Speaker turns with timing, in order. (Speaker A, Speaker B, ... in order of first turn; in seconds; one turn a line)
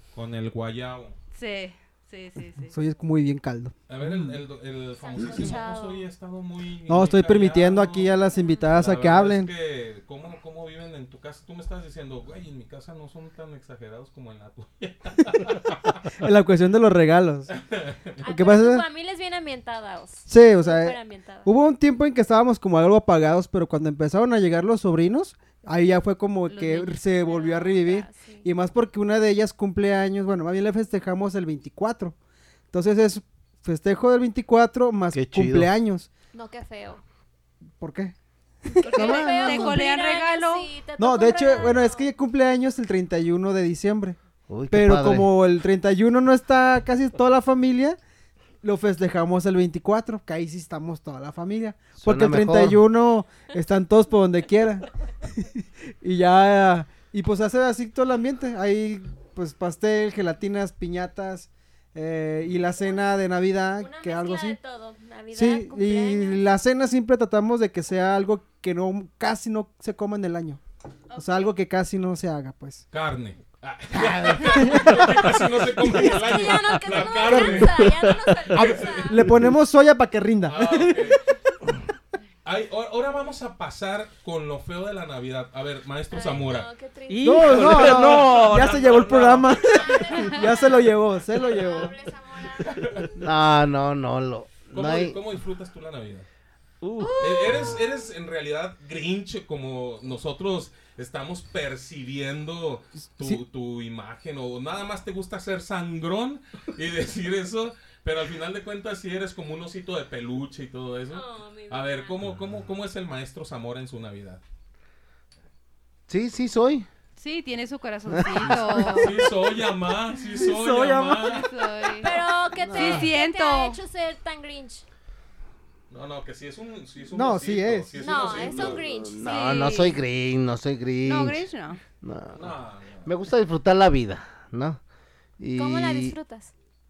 Speaker A: 0.1-1.1
Speaker B: 1.3-2.7
Speaker C: 2.6-4.4
Speaker A: 3.9-8.1
Speaker D: 5.0-6.0
Speaker C: 5.2-5.6
Speaker C: 6.9-9.5
Speaker A: 8.7-16.1
Speaker C: 16.1-17.5
Speaker A: 17.5-18.1
Speaker D: 18.2-21.5
Speaker C: 18.2-18.8
Speaker C: 20.3-32.1
Speaker B: 26.5-26.9
Speaker D: 27.2-28.5
Speaker C: 32.7-36.1
Speaker E: 35.1-35.7
Speaker D: 36.3-37.0
Speaker C: 37.8-38.1
Speaker C: 38.6-39.8
Speaker B: 38.8-40.7
Speaker D: 38.9-42.1
Speaker C: 41.0-44.2
Speaker E: 44.5-45.3
Speaker C: 44.7-48.0
Speaker C: 48.6-64.6
Speaker E: 52.0-52.8
Speaker D: 62.9-63.1
Speaker D: 63.8-66.4
Speaker C: 65.3-70.6
Speaker D: 71.1-71.5
Speaker C: 71.2-72.8
Speaker A: 72.9-79.2
Speaker C: 73.9-76.5
Speaker D: 75.2-79.2
Speaker F: 77.6-78.6
Speaker C: 78.5-81.1
Speaker A: 80.5-81.2
Speaker A: 82.4-86.7
Speaker D: 86.1-88.0
Speaker F: 87.1-89.0
Speaker C: 87.2-91.9
Speaker A: 87.5-90.2
Speaker D: 89.7-93.0
Speaker A: 92.7-93.0
Speaker E: 93.2-95.2
Speaker A: 94.7-96.3
Speaker F: 96.8-97.7
Speaker D: 97.0-97.8
Speaker A: 97.2-114.4
Speaker D: 111.1-112.2
Speaker E: 116.1-116.9
Speaker B: 117.2-119.2
Speaker E: 118.2-118.9
Speaker C: 118.4-118.8
Speaker A: 118.9-121.5
Speaker C: 120.3-121.4
Speaker B: 121.2-122.1
Speaker D: 121.9-124.8
Speaker C: 122.7-123.1
Speaker B: 122.7-123.8
Speaker A: 125.9-128.8
Speaker C: 127.1-127.9
Speaker D: 128.0-129.7
Speaker E: 128.1-131.4
Speaker B: 129.2-130.0
Speaker B: 131.0-131.8
Speaker E: 132.0-132.5
Speaker A: 132.3-133.1
Speaker E: 133.0-134.8
Speaker E: 135.4-136.2
Speaker D: 135.6-136.5